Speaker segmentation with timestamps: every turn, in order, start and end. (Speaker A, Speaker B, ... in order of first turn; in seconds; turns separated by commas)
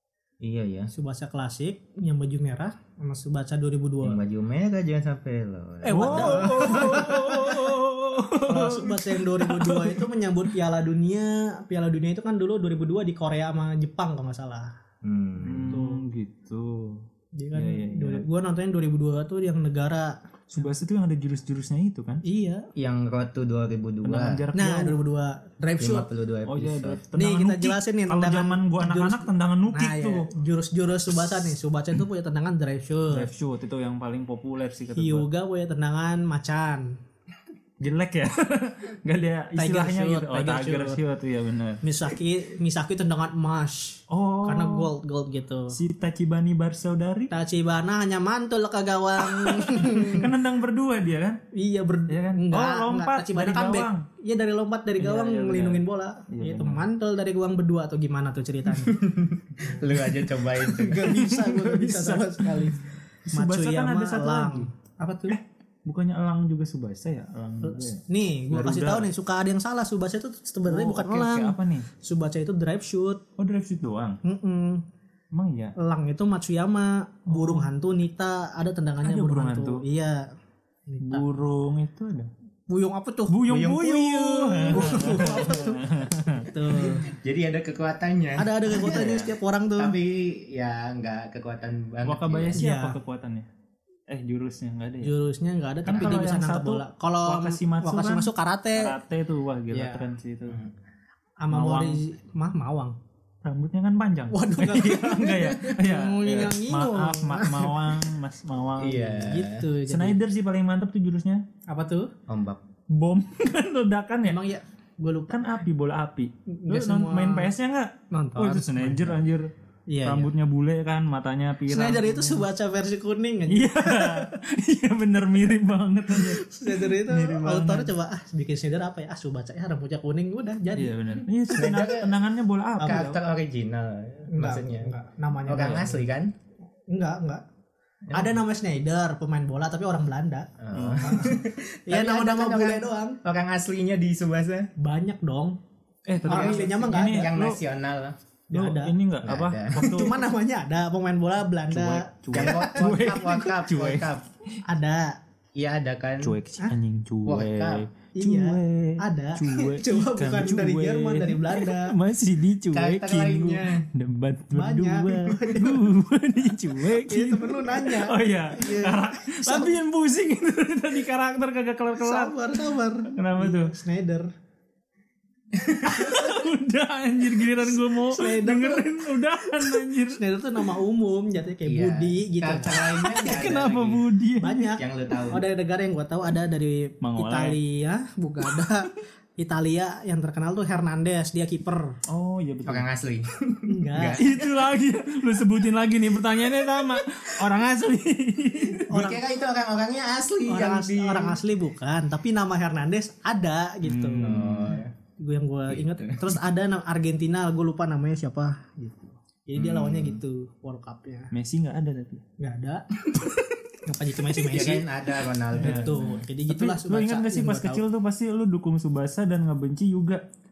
Speaker A: 0.4-0.9, Speaker B: 0.9-4.2, Speaker A: 4.0-7.2, Speaker B: 5.8-7.7, Speaker C: 5.9-10.1, Speaker B: 8.4-14.7, Speaker A: 15.0-15.8, Speaker C: 15.4-18.2, Speaker B: 15.7-16.0, Speaker B: 17.3-20.1, Speaker C: 20.5-22.2, Speaker B: 22.2-22.7, Speaker A: 22.7-24.4, Speaker C: 24.0-25.0, Speaker B: 24.5-26.1, Speaker A: 25.8-27.0, Speaker C: 26.4-30.3, Speaker B: 27.1-33.3, Speaker C: 33.1-35.3, Speaker B: 34.9-37.0, Speaker C: 37.8-41.8, Speaker B: 39.5-41.0, Speaker B: 41.8-45.8, Speaker C: 44.1-44.9, Speaker C: 45.7-47.3, Speaker B: 47.3-50.3, Speaker C: 49.2-51.4, Speaker B: 51.5-59.0, Speaker C: 52.1-54.0, Speaker C: 55.0-56.8, Speaker A: 58.8-61.1, Speaker B: 59.6-59.8, Speaker B: 60.6-65.4, Speaker C: 61.0-64.7, Speaker C: 65.3-69.1, Speaker B: 67.6-73.2, Speaker C: 70.7-71.9, Speaker C: 73.4-74.2, Speaker B: 74.2-74.8, Speaker C: 75.3-75.7, Speaker B: 75.8-80.3, Speaker C: 77.3-77.7, Speaker C: 79.0-79.8, Speaker B: 80.9-81.2, Speaker C: 81.0-82.3, Speaker B: 82.7-83.4, Speaker C: 83.3-87.0, Speaker A: 83.5-85.3, Speaker B: 84.7-87.1, Speaker A: 87.0-89.2, Speaker B: 88.4-90.0, Speaker C: 88.7-89.3, Speaker A: 89.8-92.6, Speaker C: 92.0-93.5, Speaker B: 92.5-93.0, Speaker C: 94.1-95.1, Speaker B: 95.0-98.9, Speaker C: 95.8-100.6, Speaker B: 99.7-100.0, Speaker B: 101.4-103.0, Speaker C: 101.5-102.0, Speaker C: 103.4-109.2, Speaker B: 104.3-107.8, Speaker A: 108.8-109.7, Speaker B: 109.2-110.2, Speaker C: 109.9-111.4, Speaker B: 111.7-112.1, Speaker A: 112.3-112.6, Speaker C: 112.9-114.4, Speaker B: 114.3-115.4, Speaker C: 115.3-119.5, Speaker B: 116.5-117.5, Speaker B: 118.1-119.2, Speaker B: 119.9-120.3, Speaker C: 120.0-122.4, Speaker B: 121.7-124.3, Speaker C: 123.5-127.9, Speaker B: 126.1-131.0, Speaker C: 130.7-133.2, Speaker A: 131.5-132.2, Speaker B: 132.8-133.1, Speaker A: 132.8-134.9, Speaker B: 134.3-136.0, Speaker A: 135.4-136.3, Speaker B: 136.9-137.4, Speaker B: 138.1-143.2, Speaker A: 140.6-144.7, Speaker C: 140.7-141.3, Speaker B: 144.8-145.6, Speaker C: 146.1-147.6, Speaker A: 146.2-148.2, Speaker B: 146.2-147.3, Speaker B: 148.5-148.9, Speaker C: 148.5-150.2, Speaker A: 149.2-150.0, Speaker B: 149.8-152.9, Speaker C: 151.7-154.1, Speaker A: 152.3-154.2, Speaker B: 154.7-155.2, Speaker A: 155.6-156.3, Speaker C: 156.2-172.4, Speaker A: 157.2-157.8, Speaker B: 158.1-161.9, Speaker A: 162.7-163.8, Speaker B: 164.5-165.8, Speaker B: 166.8-169.8, Speaker B: 171.9-174.3, Speaker C: 173.1-173.7, Speaker A: 175.5-176.1, Speaker C: 175.8-180.2, Speaker B: 177.9-183.7, Speaker A: 181.6-184.0, Speaker C: 183.1-184.7, Speaker B: 184.4-191.9, Speaker A: 184.8-185.4, Speaker C: 187.0-187.6, Speaker C: 192.1-192.9, Speaker A: 192.7-194.5, Speaker B: 193.7-194.2, Speaker C: 194.2-198.9, Speaker A: 198.8-201.4, Speaker B: 198.9-199.3, Speaker B: 200.4-204.3, Speaker C: 203.8-204.8, Speaker A: 204.2-204.9, Speaker B: 205.2-211.3, Speaker A: 205.7-206.3, Speaker A: 209.5-210.2, Speaker C: 211.3-212.2, Speaker B: 212.4-214.9, Speaker A: 214.4-216.2, Speaker B: 215.5-217.8, Speaker C: 215.6-220.2